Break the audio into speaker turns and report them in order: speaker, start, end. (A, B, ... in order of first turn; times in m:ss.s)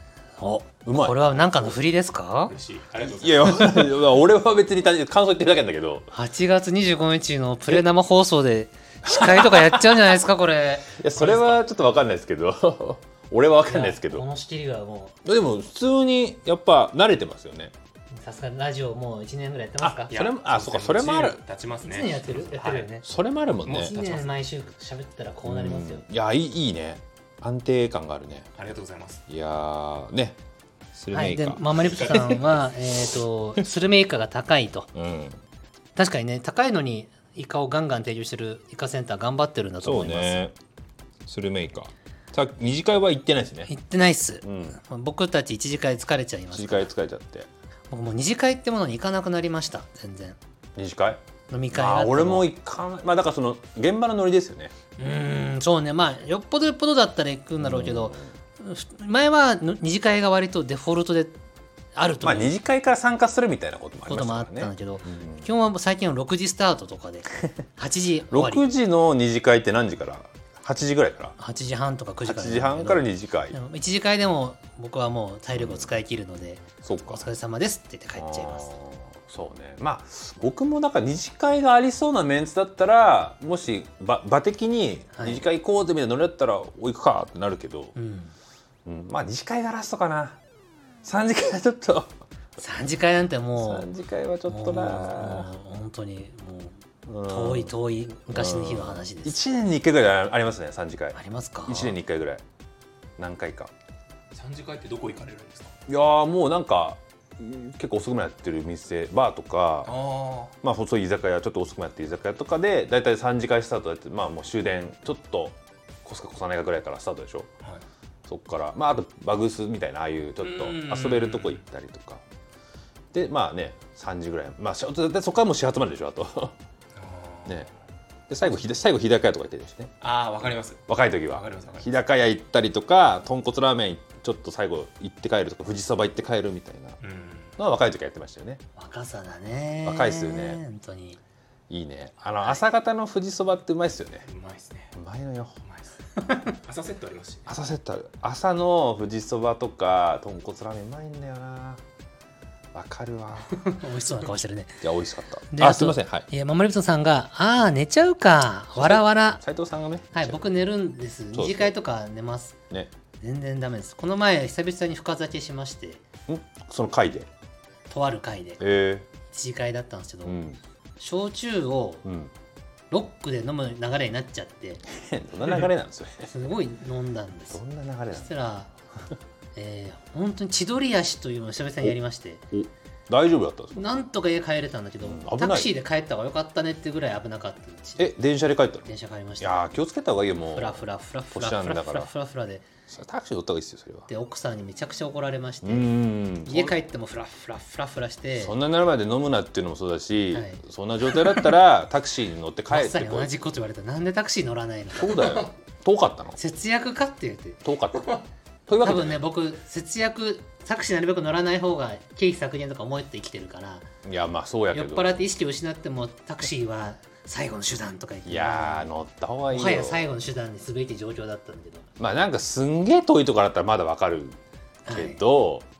0:00.4-0:02.5 A
0:00.8-0:01.8 B
0:02.5-0:03.7 C
0:03.0-0:06.1 B
0:03.6-0:03.9 A
0:06.1-0:11.6 A
0:09.0-0:10.2 B
0:10.9-0:14.2 B
0:13.6-0:15.2 A
0:15.2-0:17.7 B
0:18.2-0:20.1 A
0:19.8-0:21.4 B
0:20.1-0:22.9 C
0:21.8-0:23.0 A
0:23.0-0:23.9 B
0:23.6-0:24.3 C
0:23.7-0:26.0 A
0:25.4-0:28.5 B
0:28.6-0:29.2 C
0:29.3-0:30.4 B
0:30.9-0:32.6 B
0:31.1-0:34.9 A
0:34.9-0:35.4 B
0:36.0-0:40.4 A
0:39.8-0:40.5 B
0:41.3-0:43.7 B
0:43.7-0:46.9 A
0:44.4-0:44.8 B
0:46.5-0:47.5 B
0:47.9-0:50.4 A
0:50.8-0:51.2 B
0:51.5-0:52.5 A
0:51.7-0:54.7 B
0:55.0-1:01.3 A
0:57.6-0:58.3 B
1:01.9-1:02.5 A
1:02.2-1:05.5 B
1:04.1-1:08.7 A
1:08.3-1:11.4 B
1:11.4-1:18.7 A
1:12.2-1:13.6 B
1:15.6-1:15.9 B
1:16.8-1:17.2 B
1:18.2-1:27.9 B
1:25.1-1:25.4 A
1:28.0-1:28.3 A
1:28.8-1:30.4 B
1:31.0-1:32.1 B
1:32.6-1:33.9 A
1:33.6-1:35.5 B
1:34.5-1:39.4 A
1:37.0-1:37.7 B
1:38.3-1:42.4 B
1:41.1-1:41.9 A
1:43.2-1:43.7 B
1:44.3-1:45.7 C
1:45.9-1:49.9 B
1:49.8-1:50.5 C
1:50.6-1:57.5 B
1:58.3-2:02.2 B
2:00.4-2:01.6 C
2:03.1-2:06.6 B
2:06.9-2:07.7 C
2:08.3-2:09.9 B
2:10.0-2:11.9 C
2:10.4-2:17.0 B
2:17.0-2:17.6 C
2:17.6-2:18.6 B
2:18.8-2:21.2 A
2:19.8-2:20.6 B
2:21.7-2:24.3 B
2:24.3-2:24.9 C
2:24.9-2:25.6 B
2:25.6-2:27.5 C
2:26.2-2:26.5 A
2:27.5-2:31.8 B
2:32.7-2:33.6 B
2:33.6-2:34.8 A
2:34.8-2:36.3 B
2:35.5-2:39.4 A
2:38.8-2:40.5 B
2:40.1-2:42.6 A
2:41.3-2:41.7 B
2:43.2-2:46.0 A
2:46.3-2:47.3 B
2:47.9-2:48.6 A
2:48.6-2:49.1 B
2:49.3-2:50.4 A
2:50.2-2:50.6 B
2:51.0-2:52.0 A
2:52.0-2:52.3 B
2:52.9-2:54.8 A
2:54.9-2:56.3 B
2:56.2-2:57.6 A
2:57.5-2:58.3 B
2:58.1-2:58.7 A
2:59.6-3:02.5 A
3:02.5-3:04.0 B
3:03.7-3:08.0 A
3:05.0-3:05.7 B
3:08.0-3:12.1 B
3:08.9-3:09.6 A
3:10.5-3:12.7 A
3:12.9-3:14.1 B
3:14.1-3:18.5 A
3:15.6-3:16.8 B
3:18.4-3:23.3 B
3:20.3-3:21.5 A
3:22.7-3:25.4 A
3:24.9-3:26.4 B
3:26.4-3:27.6 A
3:27.6-3:29.2 B
3:28.8-3:33.9 A
3:34.0-3:35.2 B
3:34.7-3:38.9 A
3:38.2-3:40.1 B
3:39.5-3:41.9 A
3:42.0-3:45.6 B
3:44.8-3:45.2 A